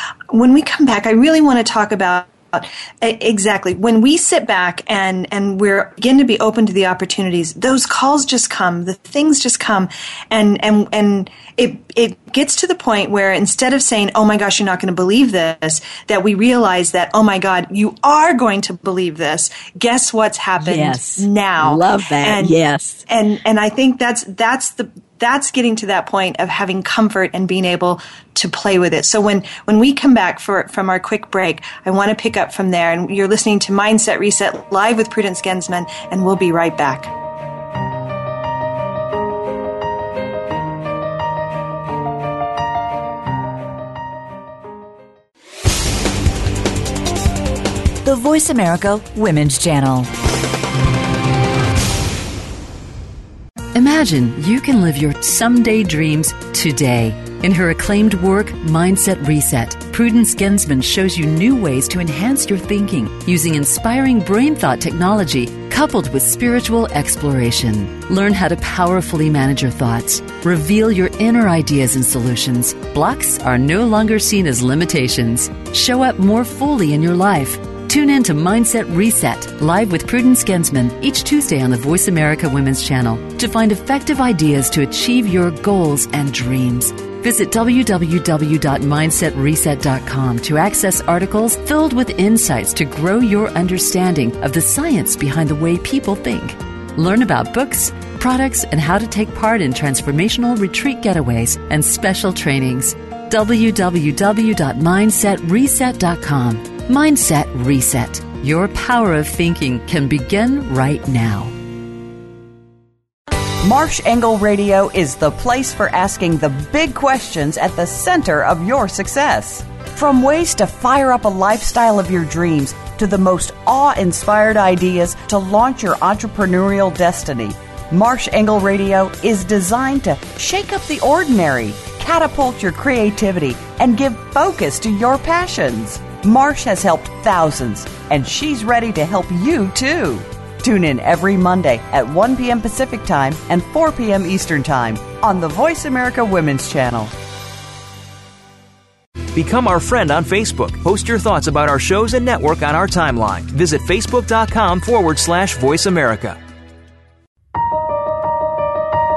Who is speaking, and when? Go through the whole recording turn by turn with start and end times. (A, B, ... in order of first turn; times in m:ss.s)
0:00.3-0:22.5 A
0:20.6-0:23.0 B
0:23.1-0:37.1 A
0:48.0-0:50.1 C
0:53.7-1:51.5 D
1:53.6-2:27.1 E
2:29.3-2:36.4 F